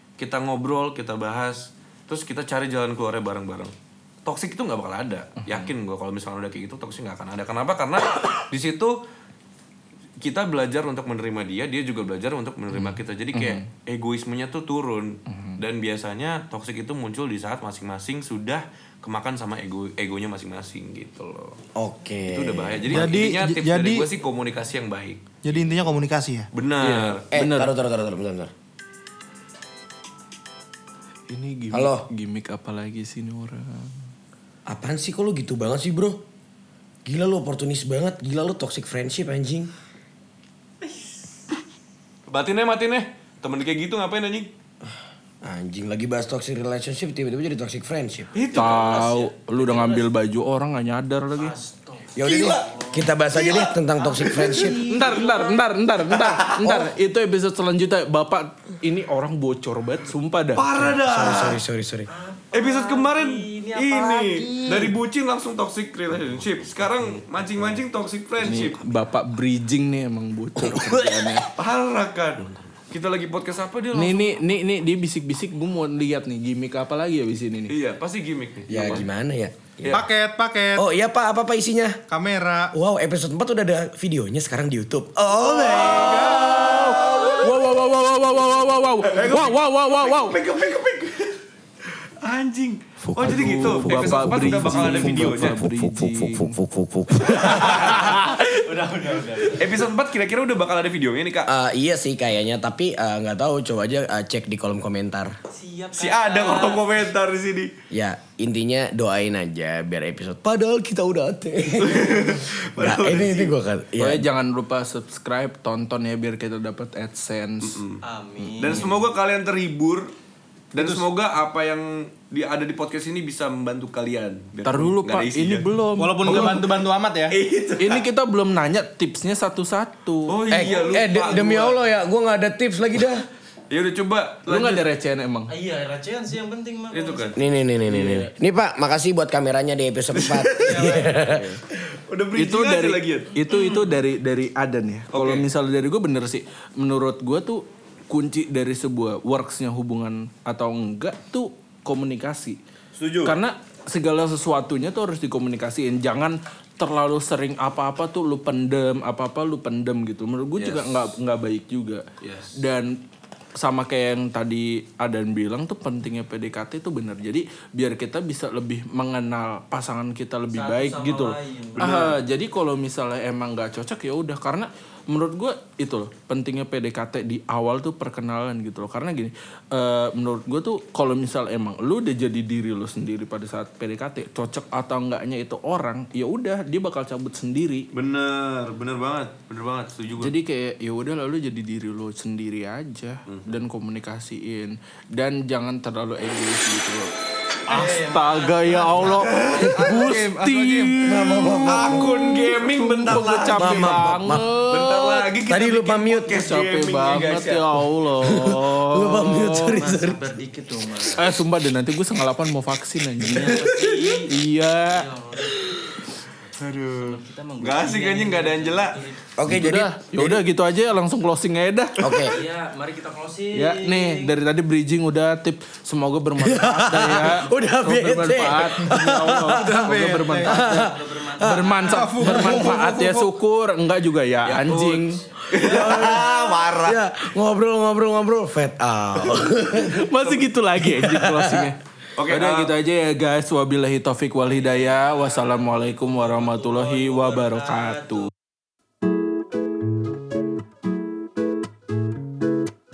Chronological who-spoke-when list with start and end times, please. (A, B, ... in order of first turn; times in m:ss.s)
0:00.2-0:03.7 A
0:04.2-0:09.0 A
0:10.2-0:21.6 A
0:12.7-0:13.6 B
0:15.3-0:15.6 B
0:21.8-0:23.1 C
0:22.3-0:25.8 A
0:22.9-0:24.1 D
0:25.4-0:26.5 D
0:26.5-0:27.2 A
0:26.8-0:27.7 B
0:27.3-0:28.5 C
0:31.3-0:34.1 B
0:31.7-0:32.0 C
0:34.7-0:36.2 C
0:37.0-0:39.7 C
0:40.8-0:41.1 E
0:42.3-0:44.5 A
0:45.4-0:48.3 C
0:48.3-0:49.1 A
0:48.4-0:50.1 E
0:48.5-0:51.5 B
0:51.4-0:53.1 E
0:52.1-0:54.8 C
0:52.2-0:52.7 A
0:53.3-0:55.1 A
0:54.0-0:55.6 E
0:54.9-1:00.6 B
0:56.2-0:56.7 A
1:00.5-1:01.6 A
1:00.8-1:02.1 C
1:02.1-1:04.9 E
1:02.5-1:08.8 A
1:08.4-1:11.5 B
1:10.7-1:14.4 A
1:13.9-1:17.7 B
1:17.7-1:19.1 A
1:18.7-1:19.9 C
1:19.9-1:20.8 D
1:20.7-1:22.0 C
1:22.1-1:22.7 D
1:22.7-1:25.8 C
1:25.2-1:27.6 A
1:25.8-1:30.4 B
1:29.0-1:31.4 A
1:32.0-1:35.6 A
1:33.0-1:37.6 C
1:33.2-1:36.6 B
1:37.3-1:39.9 E
1:37.4-1:38.3 A
1:37.6-1:38.3 B
1:39.5-1:41.5 A
1:41.5-1:45.4 C
1:45.5-1:46.8 E
1:45.9-1:47.7 A
1:47.9-1:54.2 C
1:51.8-1:53.5 A
1:54.0-1:57.8 B
1:57.6-1:58.0 A
1:58.0-1:58.9 E
1:58.4-1:59.0 B
1:58.6-2:00.1 A
2:00.7-2:05.7 A
2:00.7-2:01.0 D
2:04.6-2:06.7 B
2:06.0-2:07.4 D
2:06.2-2:06.6 A
2:07.3-2:08.0 A
2:07.8-2:10.3 B
2:10.3-2:11.8 A
2:10.5-2:13.2 C
2:13.7-2:14.8 A
2:14.4-2:15.5 B
2:15.5-2:17.4 E
2:16.9-2:17.4 A
2:17.4-2:21.5 C
2:17.9-2:18.3 B
2:20.6-2:21.2 E
2:21.8-2:23.8 A
2:22.3-2:32.6 B
2:25.1-2:25.4 A
2:33.0-2:33.4 A
2:33.2-2:43.0 B
2:40.6-2:41.1 A
2:42.2-2:42.6 A
2:43.6-3:07.9 B
2:50.5-2:52.2 E
2:51.8-2:52.1 A
3:07.9-3:10.3 A
3:10.2-3:17.1 B
3:13.3-3:13.5 A
3:17.7-3:25.3 B
3:17.7-3:19.7 E
3:19.1-3:19.6 A
3:19.5-3:21.5 D
3:21.0-3:22.2 C
3:21.6-3:27.6 A
3:23.6-3:24.4 C
3:25.4-3:26.5 C
3:26.3-3:29.8 B
3:28.2-3:30.2 C
3:29.7-3:31.4 E
3:31.2-3:33.6 B
3:33.2-3:35.8 E
3:34.3-3:35.0 B
3:36.4-3:39.2 E
3:36.6-3:39.1 A
3:39.4-3:40.4 C
3:39.5-3:42.1 B
3:42.0-3:42.4 C
3:42.2-3:44.3 E
3:43.5-3:55.2 B
3:46.4-3:51.7 C
3:50.1-3:50.6 D
3:50.7-3:52.7 E
3:51.9-3:53.3 D
3:54.4-3:57.0 A
3:55.3-3:56.1 E
3:55.5-4:00.1 C
3:59.8-4:08.3 B
4:00.8-4:01.7 C
4:02.2-4:02.7 A
4:04.6-4:08.3 E